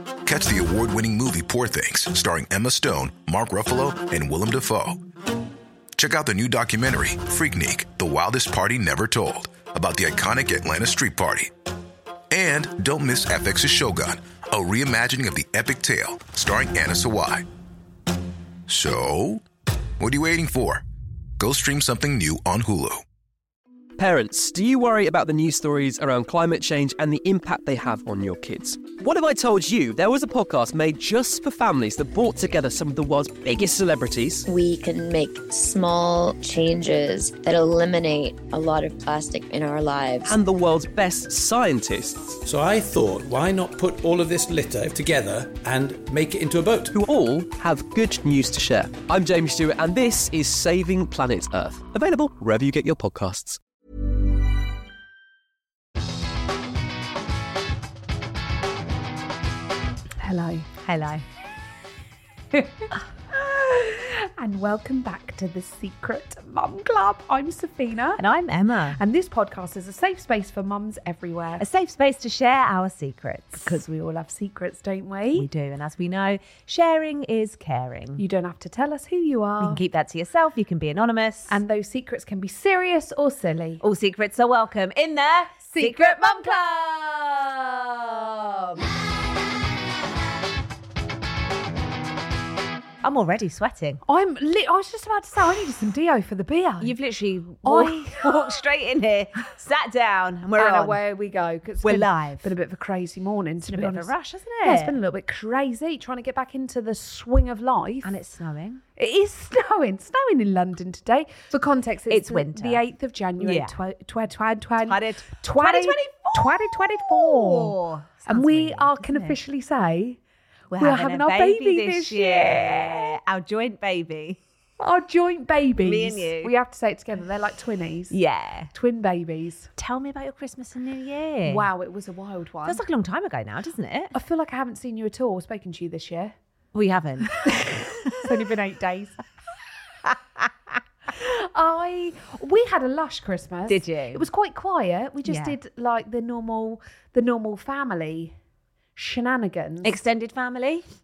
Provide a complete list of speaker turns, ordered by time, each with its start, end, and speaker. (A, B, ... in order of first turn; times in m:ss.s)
0:00.2-0:05.0 A
0:06.0-0:11.5 A
0:12.3-0:17.4 A
0:18.7-0:19.4 A
0:20.0-0:20.8 A
0:21.4-0:23.0 A
0:24.0-0:34.4 B
0:34.4-0:40.3 C
0:40.2-0:42.3 B
0:42.4-0:47.0 D
0:46.9-0:53.6 B
1:00.2-1:00.8 E
1:00.8-1:01.2 F
1:02.5-1:08.2 E
1:08.2-1:09.0 F
1:08.9-1:11.6 E
1:11.6-1:13.8 F
1:13.5-1:15.5 E
1:15.3-1:18.2 F
1:18.2-1:19.8 E
1:19.6-1:21.6 F
1:21.5-1:23.8 E
1:23.8-1:28.9 F
1:25.7-1:26.6 E
1:33.0-1:34.0 F
1:34.0-1:36.9 E
1:36.8-1:41.0 F
1:37.6-1:38.3 E
1:40.5-1:44.1 E
1:41.8-1:42.5 F
1:43.6-1:45.0 F
1:44.6-1:48.1 E
1:48.0-1:48.8 F
1:49.0-2:00.2 E
1:52.1-1:52.8 F
1:53.4-1:53.7 F
1:54.8-1:59.4 F
2:00.7-2:04.4 F
2:00.8-2:03.1 E
2:04.8-2:08.2 E
2:05.8-2:06.5 F
2:08.1-2:08.7 F
2:08.7-2:09.7 E
2:09.8-2:11.7 F
2:11.4-2:12.8 E
2:12.6-2:14.1 F
2:14.1-2:16.3 E
2:16.7-2:18.2 F
2:17.4-2:19.2 E
2:21.1-2:28.3 E
2:23.7-2:24.2 F
2:25.2-2:25.6 F
2:29.0-2:30.0 E
2:29.8-2:30.8 F